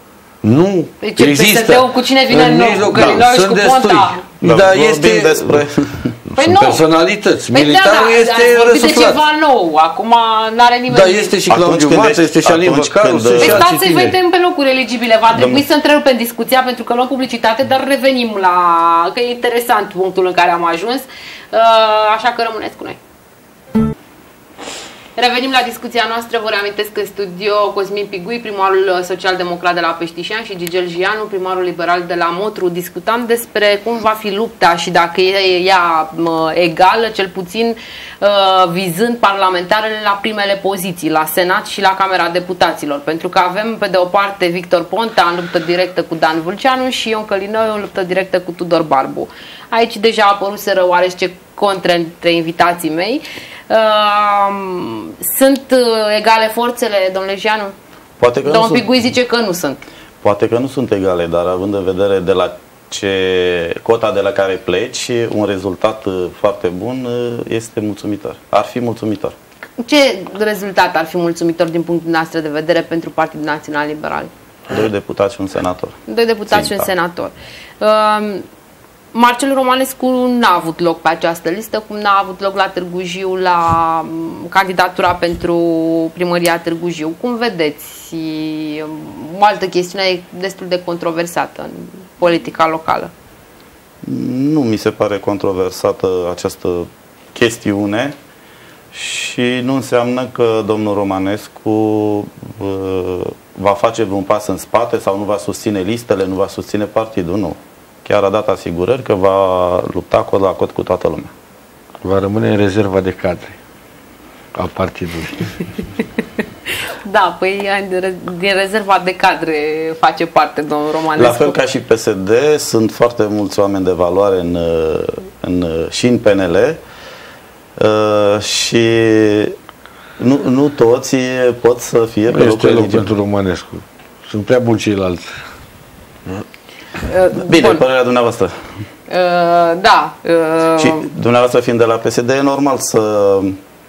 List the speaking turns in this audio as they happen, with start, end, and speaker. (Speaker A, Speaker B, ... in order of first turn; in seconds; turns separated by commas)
Speaker A: 0.4-5.6, Speaker B: 1.0-4.2, Speaker C: 2.9-3.2, Speaker C: 4.4-6.2, Speaker A: 6.3-9.2, Speaker B: 6.3-6.8, Speaker B: 7.5-11.3, Speaker A: 10.9-14.2, Speaker C: 11.5-13.6, Speaker B: 13.4-23.0, Speaker C: 15.3-15.6, Speaker B: 25.1-57.7, Speaker C: 58.2-58.9, Speaker B: 58.5-59.8, Speaker C: 60.2-69.3, Speaker B: 69.8-74.3, Speaker C: 74.7-76.9, Speaker B: 76.1-78.4, Speaker B: 79.1-93.1, Speaker C: 94.0-98.1, Speaker C: 98.9-111.3, Speaker A: 112.0-113.5, Speaker A: 114.5-115.7, Speaker B: 117.0-121.5, Speaker C: 121.2-126.8, Speaker C: 127.8-129.6, Speaker C: 130.2-133.1, Speaker A: 132.3-135.4, Speaker B: 137.0-137.8, Speaker C: 137.3-138.6, Speaker B: 139.1-141.1, Speaker C: 140.8-143.6